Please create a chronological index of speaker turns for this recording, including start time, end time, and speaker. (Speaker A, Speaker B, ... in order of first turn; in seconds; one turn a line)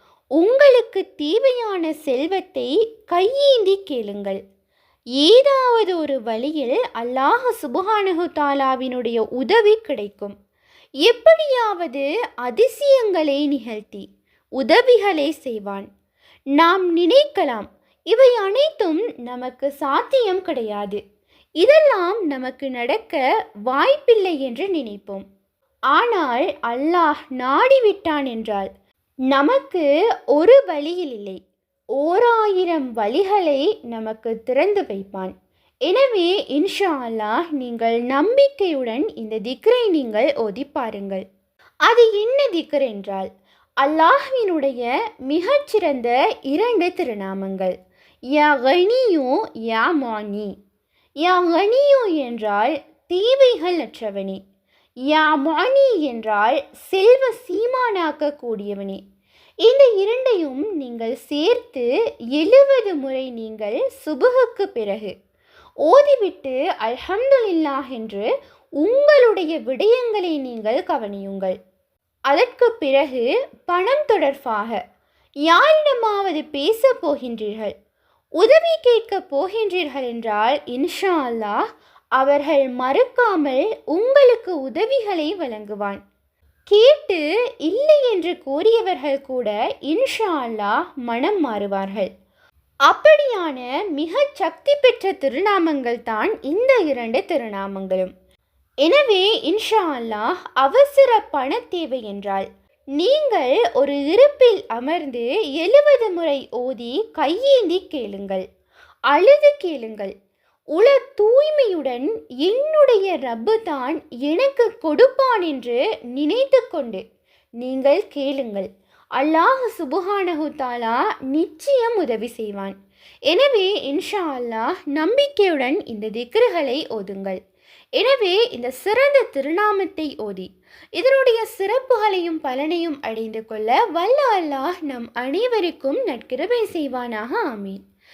Speaker A: 0.4-4.4
Speaker A: 5.2-10.3
Speaker A: 11.0-14.0
Speaker A: 14.6-15.9
Speaker A: 16.6-21.0
Speaker A: 21.6-25.2
Speaker A: 25.9-28.7
Speaker A: 29.3-31.4
Speaker A: 32.0-35.3
Speaker A: 35.9-41.2
Speaker A: 41.9-43.3
Speaker A: 43.8-47.7
Speaker A: 48.3-50.5
Speaker A: 51.2-54.4
Speaker A: 55.1-59.0
Speaker A: 59.6-65.1
Speaker A: 65.8-68.3
Speaker A: 68.8-71.5
Speaker A: 72.3-74.8
Speaker A: 75.5-77.7
Speaker A: 78.4-81.6
Speaker A: 82.2-86.0
Speaker A: 86.7-92.1
Speaker A: 92.9-98.1
Speaker A: 98.8-102.5
Speaker A: 103.0-108.4
Speaker A: 109.1-110.1
Speaker A: 110.7-117.0
Speaker A: 117.6-122.7
Speaker A: 123.3-127.4
Speaker A: 128.0-137.8